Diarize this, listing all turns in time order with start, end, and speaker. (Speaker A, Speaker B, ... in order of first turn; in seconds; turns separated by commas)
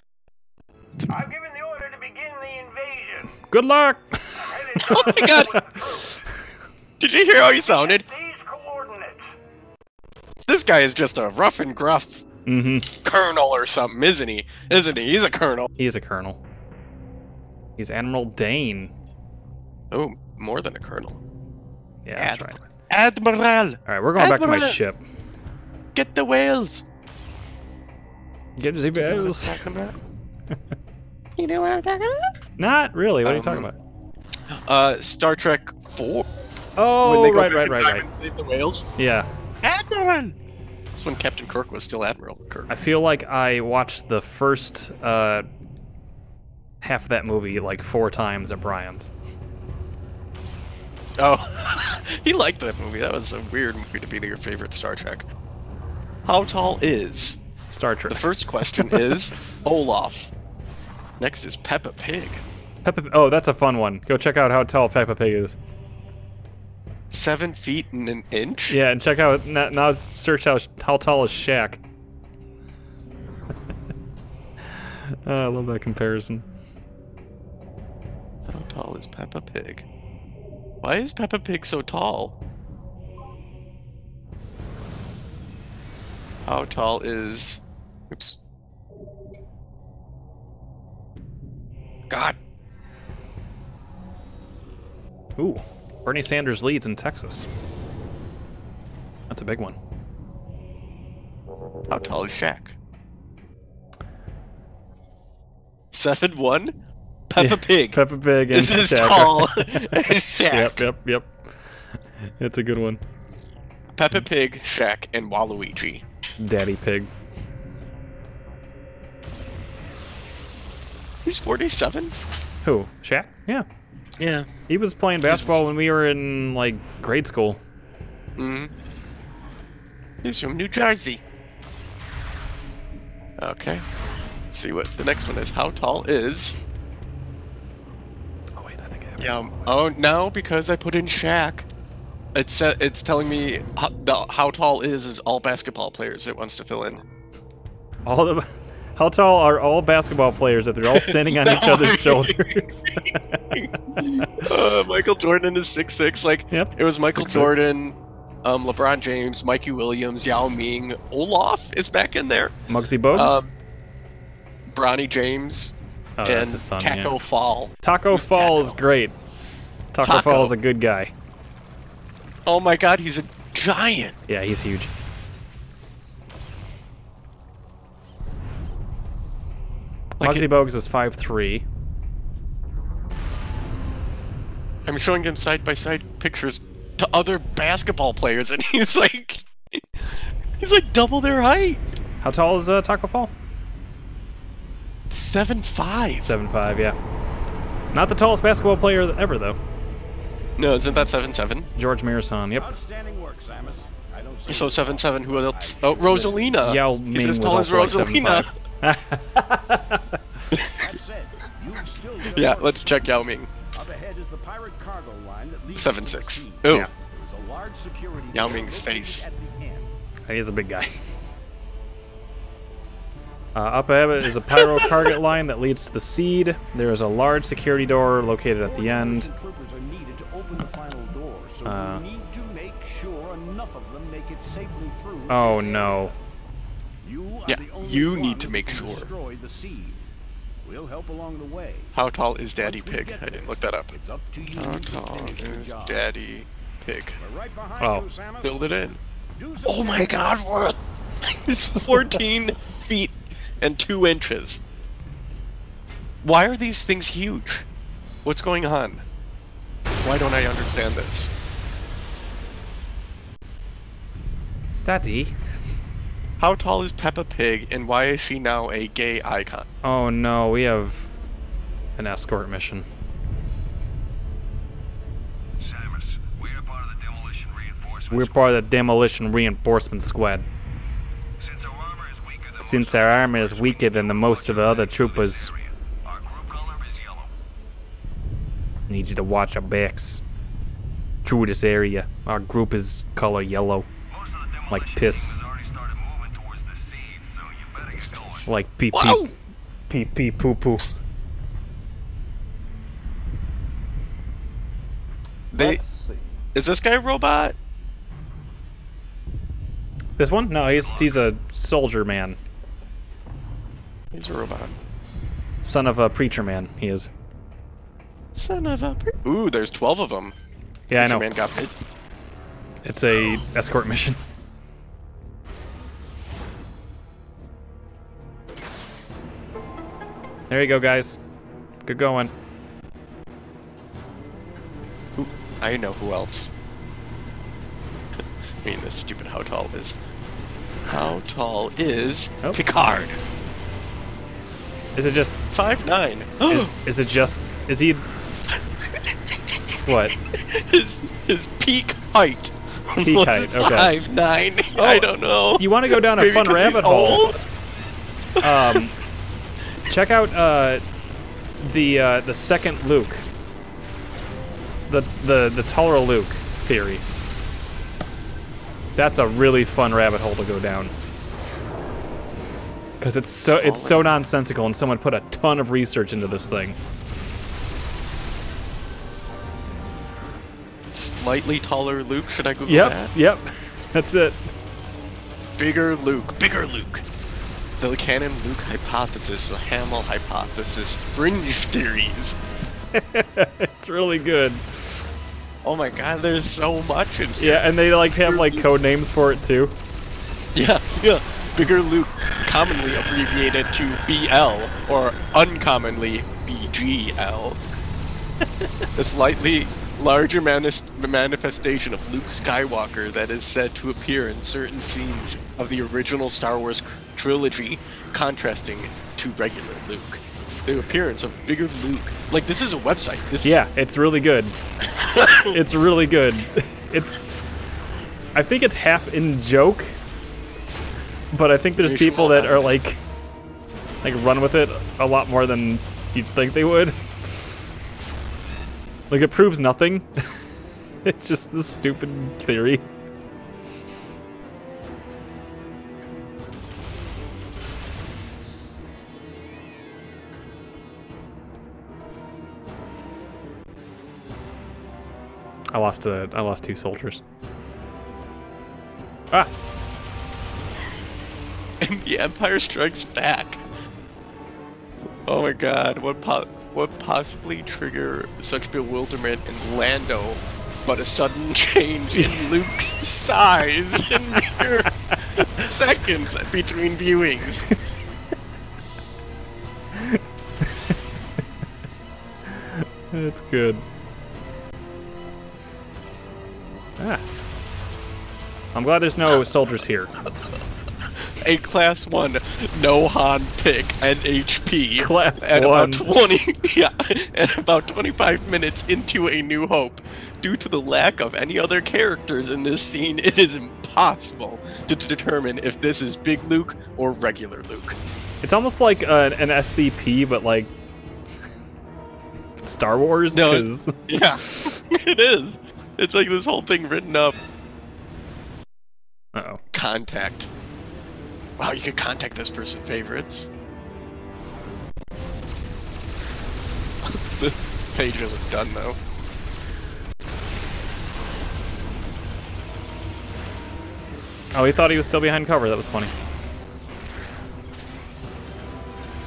Speaker A: 1.1-3.3, Speaker B: 3.5-5.8, Speaker A: 4.4-6.1, Speaker C: 4.8-5.5, Speaker C: 7.0-8.1, Speaker A: 7.5-9.3, Speaker C: 10.5-12.2, Speaker B: 12.5-12.9, Speaker C: 13.0-15.7, Speaker B: 15.8-16.4, Speaker B: 17.8-18.9, Speaker C: 19.9-21.2, Speaker B: 22.1-22.6, Speaker C: 22.2-24.8, Speaker B: 23.9-25.0, Speaker C: 25.9-26.9, Speaker B: 28.6-29.6, Speaker C: 29.0-30.0, Speaker C: 31.4-32.3, Speaker B: 32.6-33.8, Speaker C: 33.2-33.7, Speaker C: 34.5-36.3, Speaker B: 36.8-38.1, Speaker C: 37.0-38.9, Speaker B: 39.0-39.3, Speaker C: 39.6-40.4, Speaker C: 41.0-42.7, Speaker B: 42.7-45.5, Speaker B: 46.8-49.1, Speaker C: 51.2-55.3, Speaker C: 56.3-57.4, Speaker B: 57.7-59.2, Speaker C: 58.1-60.3, Speaker C: 61.2-62.4, Speaker B: 62.9-65.6, Speaker C: 67.1-68.8, Speaker B: 68.7-71.8, Speaker B: 74.7-76.5, Speaker C: 78.5-79.9, Speaker C: 80.8-82.3, Speaker C: 86.5-88.4, Speaker C: 92.1-92.4, Speaker B: 95.4-97.5, Speaker B: 99.3-99.8, Speaker C: 101.9-102.8, Speaker C: 105.9-106.8, Speaker C: 107.3-108.0, Speaker B: 107.4-110.0, Speaker C: 108.5-110.8, Speaker B: 110.5-111.6, Speaker B: 112.4-113.0, Speaker C: 114.0-116.0, Speaker B: 116.4-117.1, Speaker C: 121.2-122.2, Speaker B: 122.6-123.7, Speaker C: 124.2-124.5, Speaker B: 124.7-127.6, Speaker C: 128.4-128.7, Speaker C: 130.2-131.2, Speaker C: 133.4-133.8, Speaker C: 134.5-136.6, Speaker B: 138.6-139.7, Speaker C: 139.2-141.7, Speaker C: 142.3-147.0, Speaker B: 148.1-153.4, Speaker C: 150.9-162.6, Speaker B: 153.9-154.5, Speaker B: 156.5-157.6, Speaker B: 162.7-163.4, Speaker C: 163.1-163.5, Speaker C: 164.7-168.8, Speaker B: 166.2-167.2, Speaker B: 167.8-169.1, Speaker B: 169.9-171.1, Speaker C: 170.0-170.5, Speaker C: 172.5-174.2, Speaker B: 174.3-174.9, Speaker C: 180.2-180.5, Speaker B: 180.2-181.7, Speaker C: 184.9-191.8, Speaker B: 192.2-193.3, Speaker C: 195.1-196.3, Speaker B: 196.3-197.0, Speaker B: 197.9-199.6, Speaker C: 200.6-201.7, Speaker B: 201.8-202.7, Speaker A: 202.6-206.5, Speaker C: 204.5-208.5, Speaker B: 206.6-210.2, Speaker C: 210.5-210.9, Speaker A: 210.7-213.0, Speaker C: 212.3-213.5, Speaker A: 213.8-219.9, Speaker C: 215.8-216.9, Speaker C: 218.3-219.3, Speaker B: 220.3-221.0, Speaker B: 223.6-229.3, Speaker C: 224.5-224.9, Speaker A: 228.6-236.1, Speaker B: 231.7-232.0, Speaker B: 235.3-236.1, Speaker A: 237.0-240.0, Speaker C: 237.5-239.1, Speaker A: 240.6-241.9, Speaker C: 241.9-243.9, Speaker A: 242.6-246.1, Speaker C: 244.5-247.2, Speaker A: 247.2-248.7, Speaker B: 247.8-248.1, Speaker C: 248.4-249.0, Speaker A: 249.4-250.4, Speaker C: 249.6-254.6, Speaker C: 256.2-257.7, Speaker C: 258.2-259.0, Speaker C: 260.0-261.3, Speaker B: 264.9-265.4, Speaker C: 266.4-269.7, Speaker B: 269.8-271.1, Speaker B: 272.0-272.9, Speaker D: 275.6-278.3, Speaker B: 278.1-280.5, Speaker D: 281.4-287.3, Speaker B: 282.6-285.5, Speaker B: 288.9-290.2, Speaker B: 291.2-293.9, Speaker D: 294.1-298.5, Speaker B: 294.7-295.4, Speaker B: 298.5-299.3, Speaker C: 298.9-299.3, Speaker B: 299.9-300.9, Speaker C: 305.5-305.8, Speaker B: 305.6-306.2, Speaker C: 306.6-307.6, Speaker B: 310.2-312.4, Speaker C: 314.1-314.8, Speaker B: 315.6-317.1, Speaker C: 318.4-320.4, Speaker B: 320.9-321.2, Speaker C: 320.9-321.8, Speaker B: 322.8-324.2, Speaker B: 330.5-331.2, Speaker B: 331.9-332.3, Speaker C: 335.2-336.5, Speaker C: 338.2-340.0, Speaker C: 340.9-343.2, Speaker B: 342.4-343.1, Speaker B: 344.9-345.4, Speaker C: 345.5-346.7, Speaker B: 346.5-348.1, Speaker C: 348.9-349.8, Speaker B: 349.9-350.1, Speaker C: 350.3-357.4, Speaker B: 353.0-353.9, Speaker B: 354.8-357.3, Speaker C: 358.4-358.8, Speaker B: 358.4-358.9, Speaker B: 359.9-360.8, Speaker B: 361.6-363.2, Speaker B: 364.9-367.0, Speaker B: 369.0-370.9, Speaker B: 373.0-376.8, Speaker C: 373.5-374.1, Speaker C: 380.9-383.1, Speaker B: 382.7-384.4, Speaker C: 385.6-387.1, Speaker C: 387.8-392.4, Speaker B: 392.9-394.9, Speaker C: 395.6-397.6, Speaker B: 397.4-399.7, Speaker C: 398.2-398.6, Speaker C: 400.5-407.6, Speaker C: 408.9-423.6, Speaker B: 423.4-424.6, Speaker C: 424.9-425.6, Speaker B: 425.4-427.3, Speaker B: 428.3-430.0, Speaker B: 431.3-433.0, Speaker C: 431.8-432.7, Speaker B: 434.0-437.0, Speaker B: 439.1-440.3, Speaker B: 441.1-442.9, Speaker B: 455.7-457.2, Speaker C: 461.8-463.6, Speaker C: 465.3-477.7, Speaker B: 472.1-472.5, Speaker B: 480.0-480.9, Speaker B: 482.7-483.8, Speaker B: 488.7-490.1, Speaker C: 491.2-508.0, Speaker B: 495.0-496.1, Speaker B: 508.4-510.7, Speaker B: 512.6-514.8, Speaker C: 513.3-517.4, Speaker B: 519.3-519.6, Speaker C: 519.7-520.5, Speaker C: 521.6-523.5, Speaker C: 527.0-529.0, Speaker B: 534.5-536.1